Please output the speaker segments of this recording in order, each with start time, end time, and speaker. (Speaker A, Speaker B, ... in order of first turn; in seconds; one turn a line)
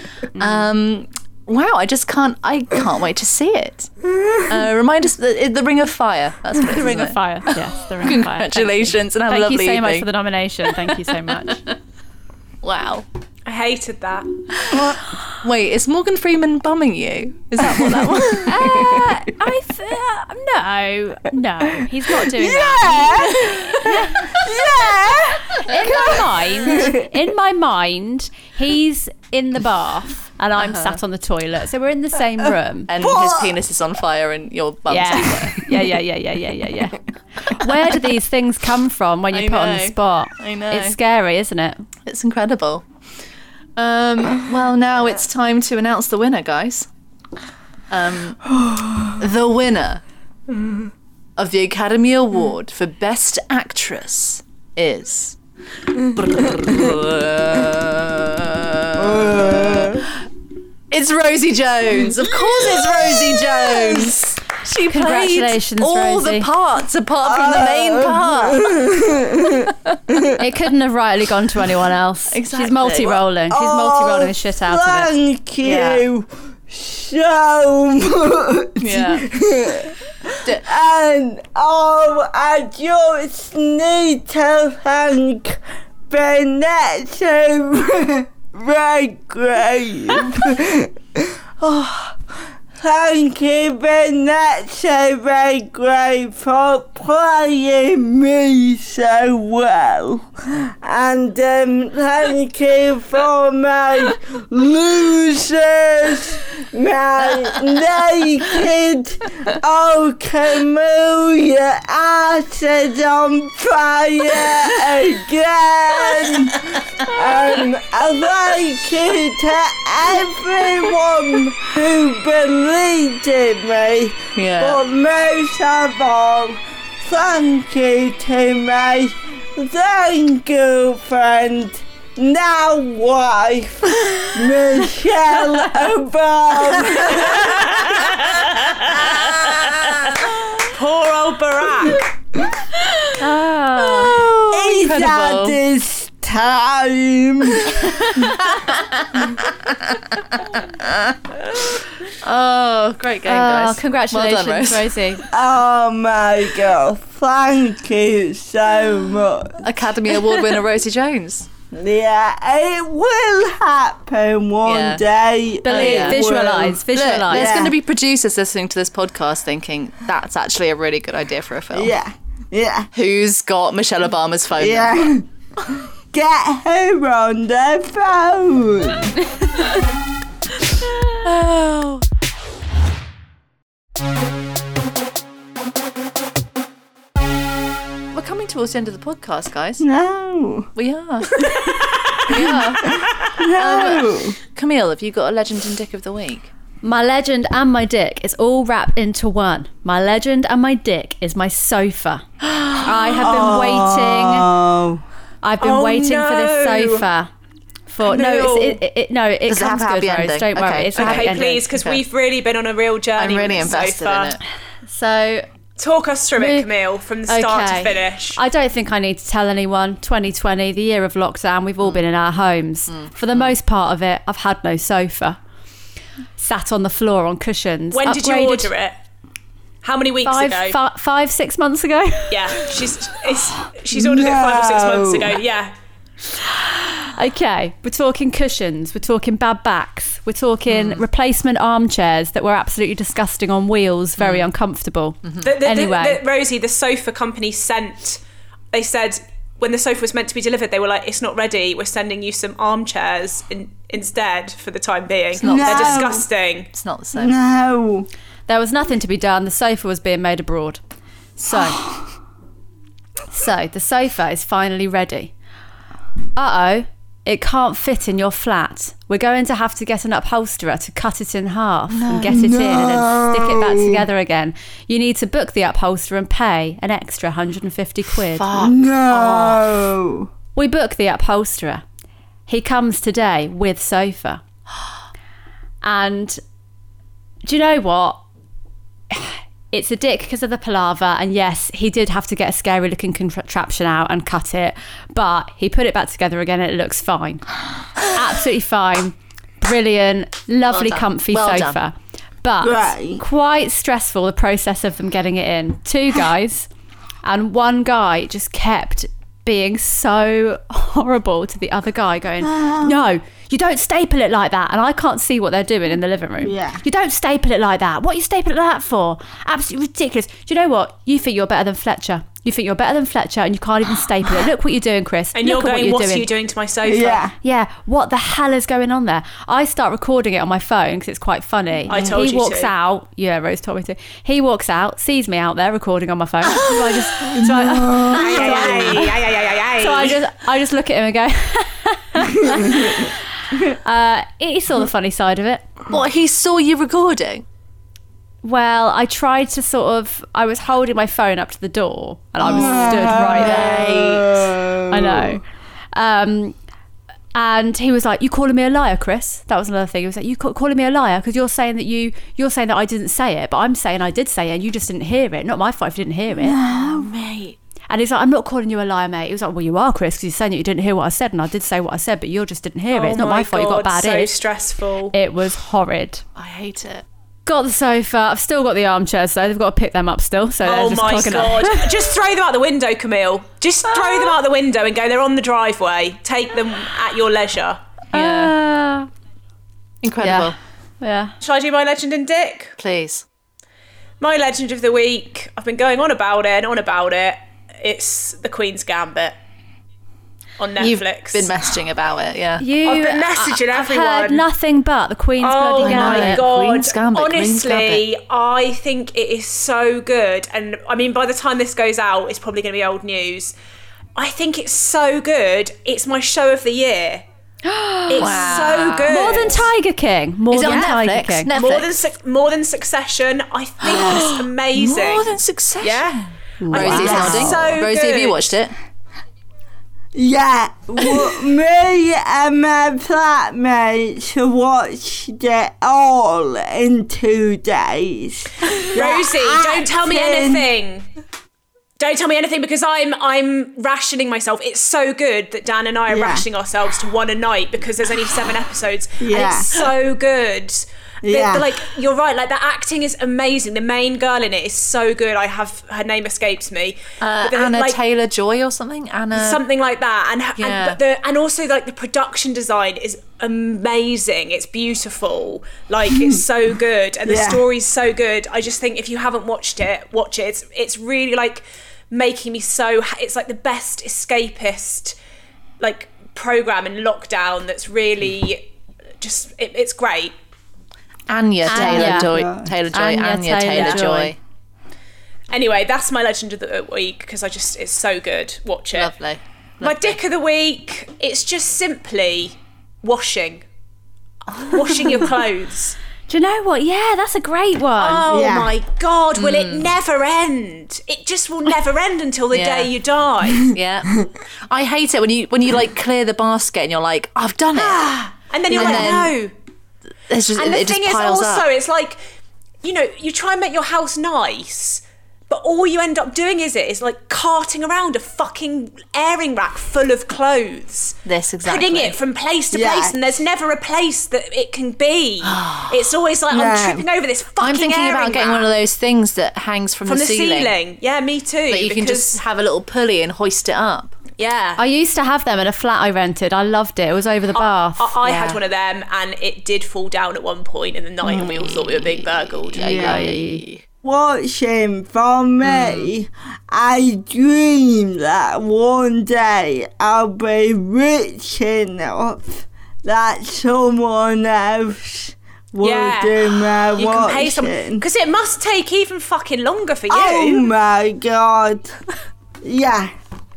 Speaker A: 0.3-0.7
Speaker B: 0.3-7.2
Speaker A: 6.6-11.6
Speaker B: 8.0-10.1
Speaker B: 12.6-13.0
Speaker C: 13.4-14.3
Speaker B: 14.6-18.7
Speaker A: 17.6-24.4
Speaker D: 22.3-27.0
Speaker A: 25.5-32.9
Speaker B: 30.6-31.0
Speaker B: 32.9-35.6
Speaker D: 33.0-33.6
Speaker A: 34.9-41.8
Speaker B: 39.3-41.0
Speaker B: 42.0-42.8
Speaker B: 43.8-46.9
Speaker B: 47.9-48.6
Speaker B: 49.1-50.0
Speaker B: 51.4-55.4
Speaker B: 56.0-60.0
Speaker D: 59.0-60.1
Speaker B: 60.9-68.9
Speaker D: 62.2-64.2
Speaker A: 64.9-66.5
Speaker D: 67.2-70.3
Speaker B: 69.6-69.9
Speaker A: 70.3-75.1
Speaker B: 72.3-73.2
Speaker D: 73.5-92.2
Speaker B: 75.6-76.0
Speaker B: 78.8-79.3
Speaker D: 92.8-137.9
Speaker B: 124.3-124.8
Speaker C: 137.4-142.1
Speaker A: 143.2-144.2
Speaker B: 143.9-145.6
Speaker D: 144.5-148.3
Speaker B: 148.1-154.9
Speaker A: 153.2-155.2
Speaker D: 155.3-159.7
Speaker B: 159.6-161.5
Speaker D: 161.7-167.8
Speaker B: 164.6-165.0
Speaker A: 165.6-167.7
Speaker B: 165.7-166.2
Speaker B: 166.9-171.9
Speaker D: 171.7-172.9
Speaker B: 172.9-175.0
Speaker D: 174.6-179.2
Speaker B: 181.1-182.0
Speaker B: 188.1-189.8
Speaker D: 189.8-190.7
Speaker B: 190.7-196.5
Speaker D: 191.4-191.7
Speaker D: 192.9-194.3
Speaker A: 196.8-204.5
Speaker D: 203.2-205.0
Speaker A: 205.4-207.3
Speaker C: 205.6-207.0
Speaker A: 207.9-211.7
Speaker C: 208.0-208.8
Speaker B: 209.5-212.0
Speaker C: 210.9-214.3
Speaker B: 213.2-214.4
Speaker A: 214.9-215.5
Speaker C: 215.8-218.4
Speaker A: 216.4-216.7
Speaker A: 217.3-225.4
Speaker B: 222.9-223.5
Speaker A: 226.4-228.7
Speaker C: 227.9-228.9
Speaker C: 229.8-230.8
Speaker A: 230.2-232.7
Speaker C: 232.3-235.7
Speaker D: 233.9-235.4
Speaker A: 236.4-246.2
Speaker B: 240.7-241.0
Speaker B: 244.2-244.5
Speaker B: 245.2-245.5
Speaker C: 245.4-256.7
Speaker B: 255.3-256.2
Speaker D: 255.4-256.2
Speaker B: 256.7-257.3
Speaker D: 257.1-258.1
Speaker A: 258.5-260.8
Speaker A: 261.4-261.9
Speaker A: 263.3-265.3
Speaker A: 266.4-278.5
Speaker B: 271.9-272.5
Speaker D: 272.2-274.0
Speaker B: 278.3-279.6
Speaker D: 278.5-280.3
Speaker A: 280.6-281.8
Speaker A: 282.5-284.4
Speaker A: 285.8-286.4
Speaker A: 287.4-288.2
Speaker A: 289.1-297.4
Speaker A: 298.0-306.7
Speaker B: 300.7-301.8
Speaker D: 302.6-303.2
Speaker A: 307.2-326.3
Speaker D: 312.4-312.9
Speaker D: 316.4-316.8
Speaker C: 325.3-327.2
Speaker D: 326.8-327.3
Speaker A: 327.4-339.2
Speaker C: 331.9-332.7
Speaker D: 337.2-339.1
Speaker C: 338.1-340.2
Speaker A: 339.8-345.7
Speaker D: 342.5-342.9
Speaker B: 345.9-347.4
Speaker A: 348.4-354.0
Speaker D: 352.4-355.4
Speaker B: 352.6-354.6
Speaker A: 354.9-355.4
Speaker A: 355.9-356.5
Speaker A: 357.3-366.6
Speaker B: 366.5-367.6
Speaker D: 366.6-367.1
Speaker A: 367.9-374.3
Speaker C: 372.9-375.1
Speaker A: 375.1-376.2
Speaker B: 376.4-377.0
Speaker A: 377.4-382.0
Speaker C: 380.6-387.8
Speaker B: 388.1-388.5
Speaker A: 388.1-389.1
Speaker B: 390.0-390.6
Speaker A: 390.2-391.3
Speaker C: 391.4-392.7
Speaker B: 392.8-393.2
Speaker C: 394.2-399.3
Speaker C: 400.6-401.6
Speaker B: 400.8-402.7
Speaker A: 402.6-406.4
Speaker C: 402.8-404.5
Speaker C: 405.4-413.5
Speaker B: 405.8-408.0
Speaker C: 414.1-417.2
Speaker A: 417.6-421.5
Speaker C: 418.1-419.7
Speaker B: 418.2-419.6
Speaker B: 420.5-422.0
Speaker C: 420.6-420.9
Speaker C: 421.5-428.5
Speaker B: 423.9-428.7
Speaker D: 426.6-427.6
Speaker A: 426.7-427.5
Speaker D: 430.1-440.7
Speaker C: 438.7-441.1
Speaker C: 442.0-458.0
Speaker D: 446.1-446.4
Speaker D: 449.2-449.9
Speaker D: 451.2-451.8
Speaker B: 457.2-459.6
Speaker C: 459.3-475.1
Speaker B: 460.6-461.0
Speaker D: 467.2-467.6
Speaker C: 475.8-478.6
Speaker C: 479.2-480.3
Speaker B: 481.3-484.4
Speaker A: 481.7-482.3
Speaker D: 481.7-482.7
Speaker A: 482.9-484.3
Speaker C: 483.7-484.0
Speaker C: 485.5-489.1
Speaker B: 488.9-490.1
Speaker C: 489.8-493.6
Speaker C: 494.6-496.0
Speaker A: 496.3-498.3
Speaker C: 498.0-503.8
Speaker D: 498.3-498.7
Speaker B: 499.4-499.9
Speaker B: 502.5-502.9
Speaker B: 503.6-508.1
Speaker C: 507.8-509.5
Speaker B: 508.7-509.3
Speaker B: 510.3-511.7
Speaker C: 510.5-512.2
Speaker C: 512.8-528.7
Speaker B: 521.2-522.2
Speaker D: 522.7-523.3
Speaker B: 525.4-526.0
Speaker D: 526.5-527.1
Speaker B: 527.6-530.7
Speaker C: 530.0-532.4
Speaker B: 531.7-534.1
Speaker C: 534.4-534.8
Speaker A: 534.8-538.6
Speaker C: 537.5-543.0
Speaker B: 541.2-543.8
Speaker D: 542.8-543.3
Speaker A: 542.8-543.6
Speaker D: 544.0-558.0
Speaker B: 545.6-546.1
Speaker C: 555.8-560.7
Speaker D: 560.1-561.9
Speaker D: 562.6-563.1